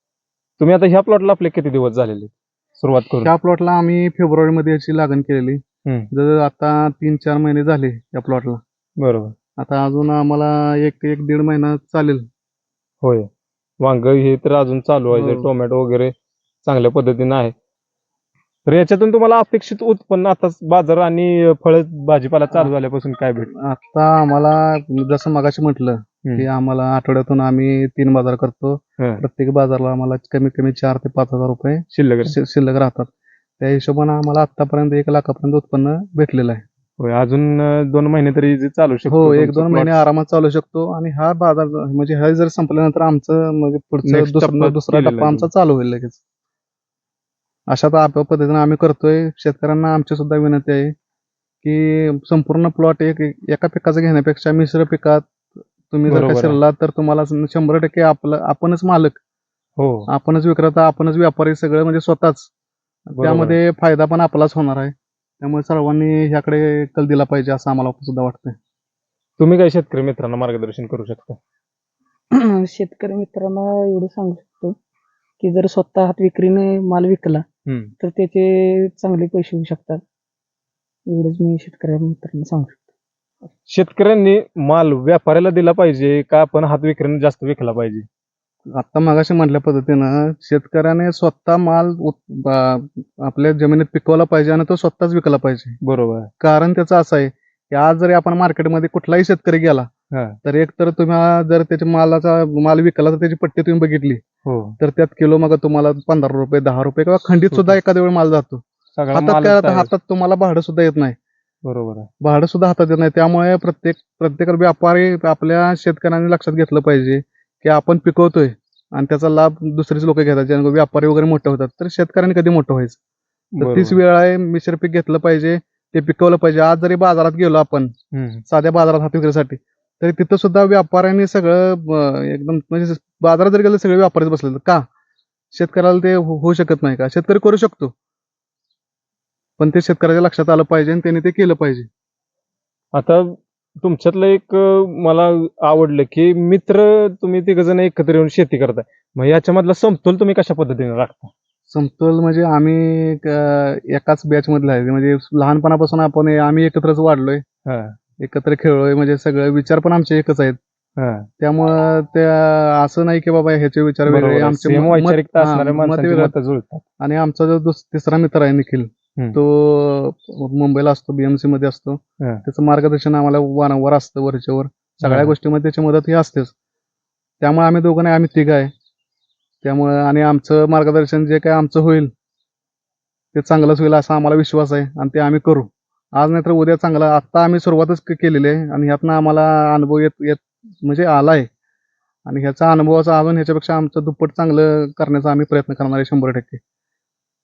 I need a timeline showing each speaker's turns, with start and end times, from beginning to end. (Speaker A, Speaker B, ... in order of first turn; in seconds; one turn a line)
Speaker A: 0.6-3.3
Speaker B: 3.2-8.6
Speaker A: 9.0-9.3
Speaker B: 9.6-12.3
Speaker A: 13.0-13.3
Speaker A: 13.8-16.1
Speaker B: 15.1-15.5
Speaker A: 16.6-17.5
Speaker A: 18.7-23.5
Speaker B: 23.6-33.1
Speaker A: 31.9-32.4
Speaker B: 33.6-36.6
Speaker A: 37.0-40.0
Speaker B: 39.1-46.2
Speaker A: 44.0-45.5
Speaker B: 47.7-51.0
Speaker B: 51.6-59.2
Speaker A: 56.1-56.6
Speaker A: 59.8-60.1
Speaker B: 60.1-62.5
Speaker B: 63.1-68.6
Speaker A: 63.2-63.6
Speaker A: 69.4-71.4
Speaker C: 72.3-74.8
Speaker C: 75.4-77.4
Speaker A: 77.7-77.9
Speaker C: 78.0-80.0
Speaker C: 81.1-82.8
Speaker A: 83.7-88.1
Speaker B: 88.7-95.8
Speaker A: 95.8-96.3
Speaker B: 96.4-99.9
Speaker A: 100.1-100.4
Speaker B: 100.4-104.2
Speaker A: 104.5-104.8
Speaker B: 104.8-108.6
Speaker A: 107.5-107.8
Speaker A: 108.9-109.9
Speaker B: 109.1-111.2
Speaker A: 111.6-112.1
Speaker B: 112.2-123.0
Speaker A: 123.6-124.0
Speaker B: 123.6-127.9
Speaker A: 128.1-128.4
Speaker B: 128.5-134.8
Speaker B: 135.5-137.9
Speaker B: 139.6-141.9
Speaker A: 142.9-151.3
Speaker B: 151.7-157.4
Speaker A: 157.7-158.0
Speaker B: 158.2-160.6
Speaker A: 161.0-161.3
Speaker B: 161.4-166.3
Speaker A: 164.1-166.8
Speaker B: 167.0-176.5
Speaker A: 175.0-175.3
Speaker B: 177.4-178.7
Speaker B: 179.6-182.1
Speaker B: 183.3-191.5
Speaker B: 192.3-196.6